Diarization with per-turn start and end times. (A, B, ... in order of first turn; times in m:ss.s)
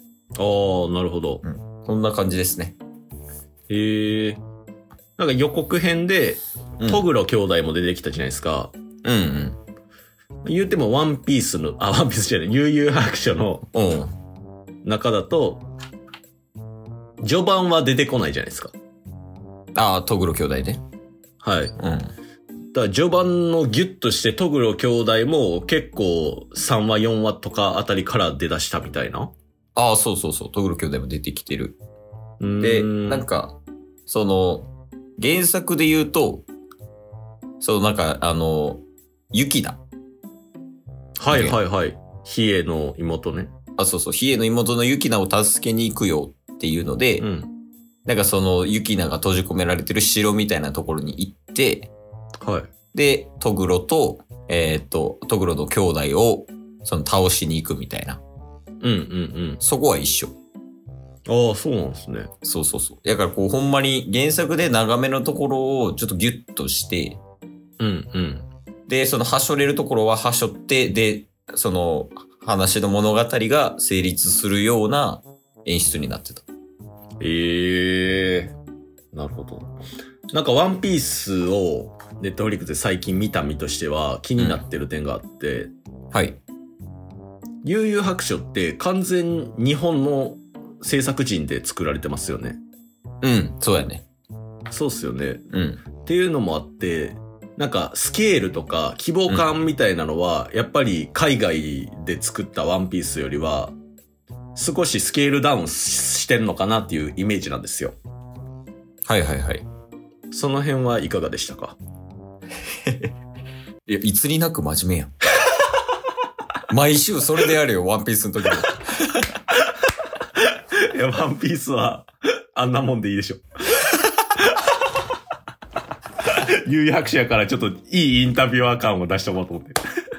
0:00.4-0:01.4 A
0:01.4-0:02.8 B
0:03.7-0:04.4 A
0:05.2-0:08.7 A
0:09.0-0:09.6 B
0:10.4-0:13.7 A
0:13.7-0:14.1 B
0:14.8-0:15.7 A
0:17.2-0:18.7 A
0:19.7-0:20.8 B
0:21.4-0:21.7 A
0:21.8-0:22.1 B
0:22.7-0:29.3 A
0:29.7-0:31.8 B
0:32.4-0:33.2 A
0:32.6-0:36.4 B
0:37.6-0:39.8 B
0:41.2-0:43.5 A
0:41.3-0:41.6 B
0:43.8-0:47.3 B
0:47.2-0:47.5 A
0:48.0-0:51.9 B
0:52.4-0:52.7 A
0:52.9-0:58.2 B
0:58.8-0:59.6 A
0:59.6-1:00.3 B
1:01.2-1:02.3 A
1:02.4-1:07.2 B
1:07.8-1:08.5 A
1:08.9-1:16.4 B
1:17.2-1:18.5 A
1:19.1-1:19.7 A
1:20.3-1:25.7 A
1:26.1-1:26.4 B
1:27.6-1:32.6 A
1:33.2-1:34.0 B
1:34.7-1:35.4 A
1:35.5-1:35.8 B
1:36.0-1:43.7 A
1:44.5-1:48.0 A
1:49.1-1:49.6 B
1:50.3-1:51.8 A
1:52.8-1:53.1 B
1:53.9-1:55.1 B
1:56.7-1:58.8 B
2:00.4-2:04.7 A
2:06.2-2:09.8 A